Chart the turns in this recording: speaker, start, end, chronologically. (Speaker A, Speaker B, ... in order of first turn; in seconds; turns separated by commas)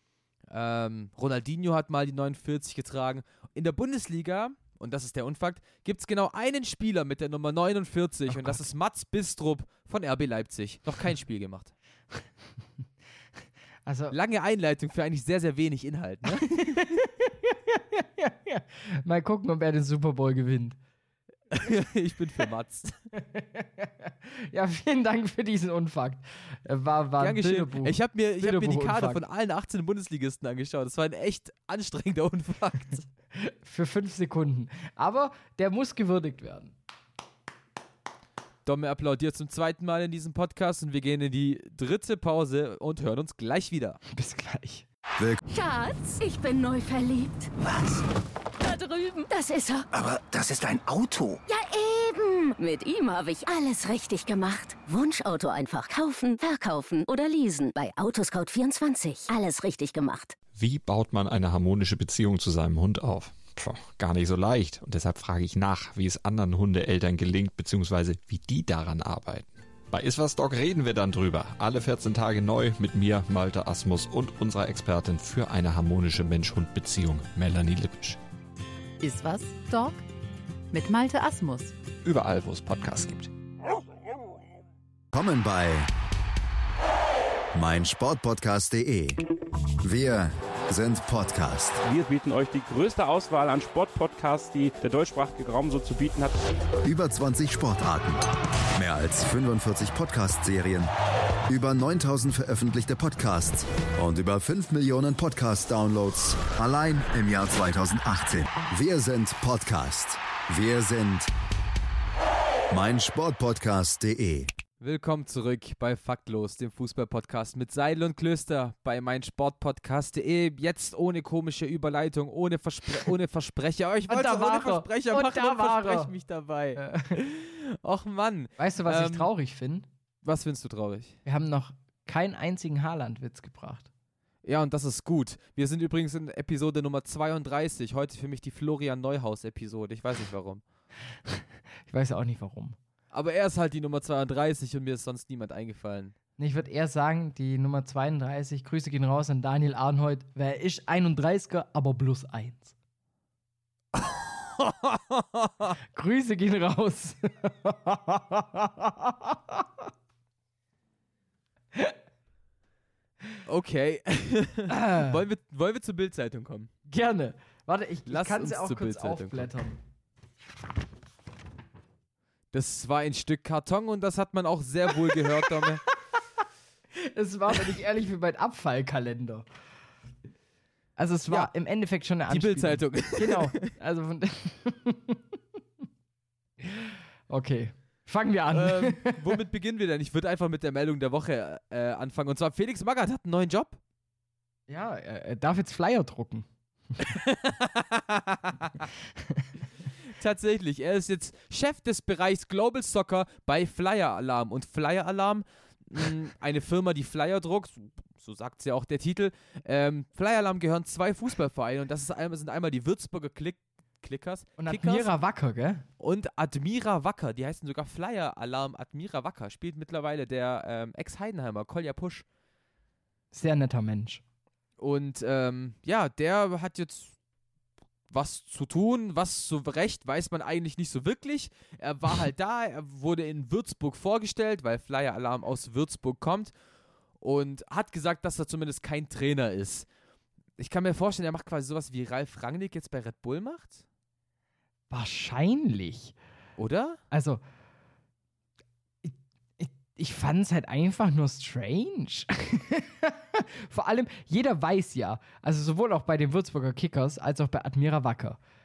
Speaker A: 0.5-11.7, Speaker B: 8.3-8.6, Speaker B: 13.9-14.2, Speaker A: 14.1-16.8, Speaker B: 16.4-20.8, Speaker A: 21.5-23.0, Speaker B: 23.2-29.2, Speaker A: 27.2-33.1, Speaker B: 33.4-36.7, Speaker A: 38.6-44.0, Speaker B: 44.1-44.9, Speaker C: 45.5-47.5, Speaker D: 47.6-48.0, Speaker C: 48.6-49.9, Speaker D: 49.9-51.4, Speaker C: 51.5-60.4, Speaker E: 60.5-78.2, Speaker F: 79.0-80.0, Speaker F: 80.7-81.7, Speaker E: 82.0-83.3, Speaker G: 85.1-85.9, Speaker G: 87.5-89.2, Speaker G: 89.8-91.8, Speaker H: 91.8-96.4, Speaker G: 96.8-98.2, Speaker G: 98.8-100.9, Speaker G: 101.5-111.3, Speaker G: 112.7-114.5, Speaker A: 114.8-129.3, Speaker B: 124.1-126.1, Speaker B: 126.8-127.2, Speaker B: 128.6-129.9, Speaker A: 130.2-131.2, Speaker B: 131.3-133.9, Speaker A: 134.4-140.6, Speaker B: 141.3-142.8, Speaker A: 143.1-146.2, Speaker B: 146.4-152.7, Speaker A: 154.0-155.7, Speaker B: 155.9-159.9, Speaker A: 163.4-166.7, Speaker B: 164.7-165.2, Speaker B: 166.9-169.8, Speaker A: 168.1-169.5, Speaker A: 172.5-175.8, Speaker B: 177.0-179.5, Speaker B: 181.0-185.2, Speaker A: 182.3-183.5, Speaker B: 186.6-189.4, Speaker A: 188.5-193.8, Speaker B: 194.7-196.5, Speaker A: 197.0-198.9, Speaker A: 200.0-215.1, Speaker B: 214.6-215.8, Speaker A: 216.0-222.2, Speaker B: 223.3-224.2, Speaker A: 224.8-227.2, Speaker A: 228.1-236.5, Speaker A: 237.2-239.9, Speaker A: 240.6-243.8, Speaker B: 244.9-246.2, Speaker A: 246.6-247.0, Speaker B: 247.1-247.4, Speaker B: 249.0-258.4